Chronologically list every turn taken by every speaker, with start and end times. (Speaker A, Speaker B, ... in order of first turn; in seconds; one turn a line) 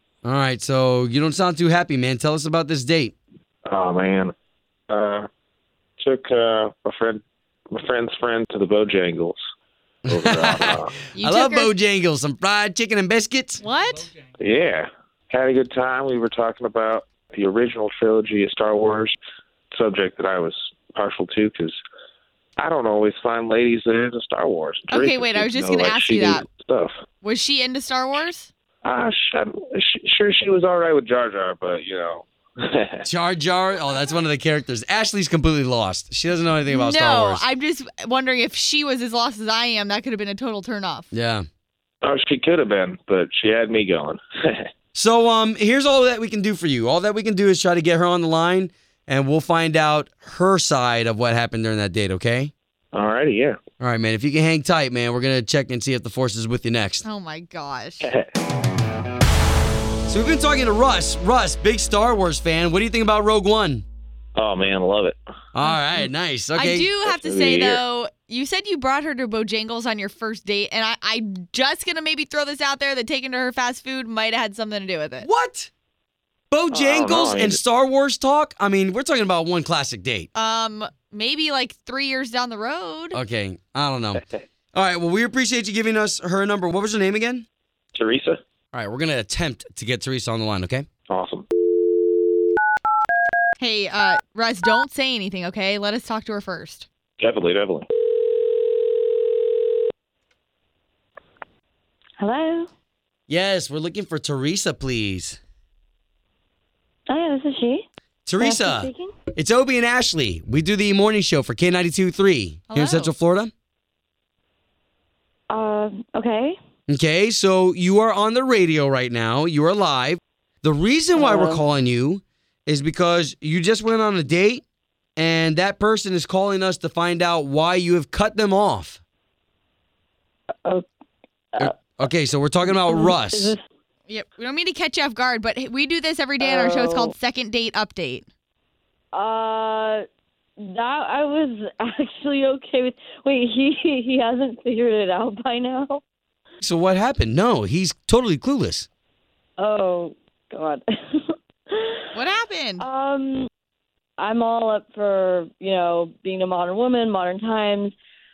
Speaker A: 0.2-3.1
Speaker B: 3.7-4.3
Speaker B: 4.9-5.3
Speaker B: 6.0-9.4
Speaker A: 10.1-13.6
Speaker B: 10.1-11.0
Speaker C: 11.1-11.7
Speaker C: 13.6-14.1
Speaker B: 14.4-19.1
Speaker B: 19.7-21.8
Speaker B: 22.6-26.9
Speaker C: 24.9-26.5
Speaker C: 27.2-28.5
Speaker B: 28.8-33.0
Speaker A: 33.0-37.5
Speaker C: 36.7-41.1
Speaker A: 41.1-41.5
Speaker B: 42.0-44.7
Speaker A: 44.9-52.5
Speaker B: 52.9-53.6
Speaker A: 53.8-57.0
Speaker C: 57.0-58.1
Speaker B: 58.0-58.3
Speaker A: 60.1-63.9
Speaker B: 64.4-65.2
Speaker A: 65.5-66.9
Speaker C: 65.6-66.0
Speaker C: 66.5-75.3
Speaker B: 67.0-67.8
Speaker A: 75.2-75.7
Speaker A: 76.5-80.3
Speaker B: 76.7-77.6
Speaker C: 80.3-83.2
Speaker A: 83.1-87.5
Speaker B: 87.9-88.4
Speaker A: 88.7-90.9
Speaker B: 91.1-91.5
Speaker C: 93.6-96.9
Speaker B: 97.2-97.9
Speaker D: 102.2-102.7
Speaker A: 103.3-105.4
Speaker D: 107.1-107.9
Speaker A: 108.3-113.5
Speaker D: 108.4-109.1
Speaker C: 112.7-113.1
Speaker D: 115.5-116.6
Speaker A: 116.9-124.6
Speaker D: 121.1-121.6
Speaker A: 125.2-129.0
Speaker A: 131.6-133.6
Speaker D: 132.7-133.6
Speaker C: 134.1-138.3
Speaker D: 136.4-137.1
Speaker D: 139.1-140.0
Speaker D: 140.6-146.0
Speaker A: 146.6-148.9
Speaker D: 149.6-152.1
Speaker C: 152.1-152.8
Speaker D: 152.8-153.5
Speaker D: 154.2-157.9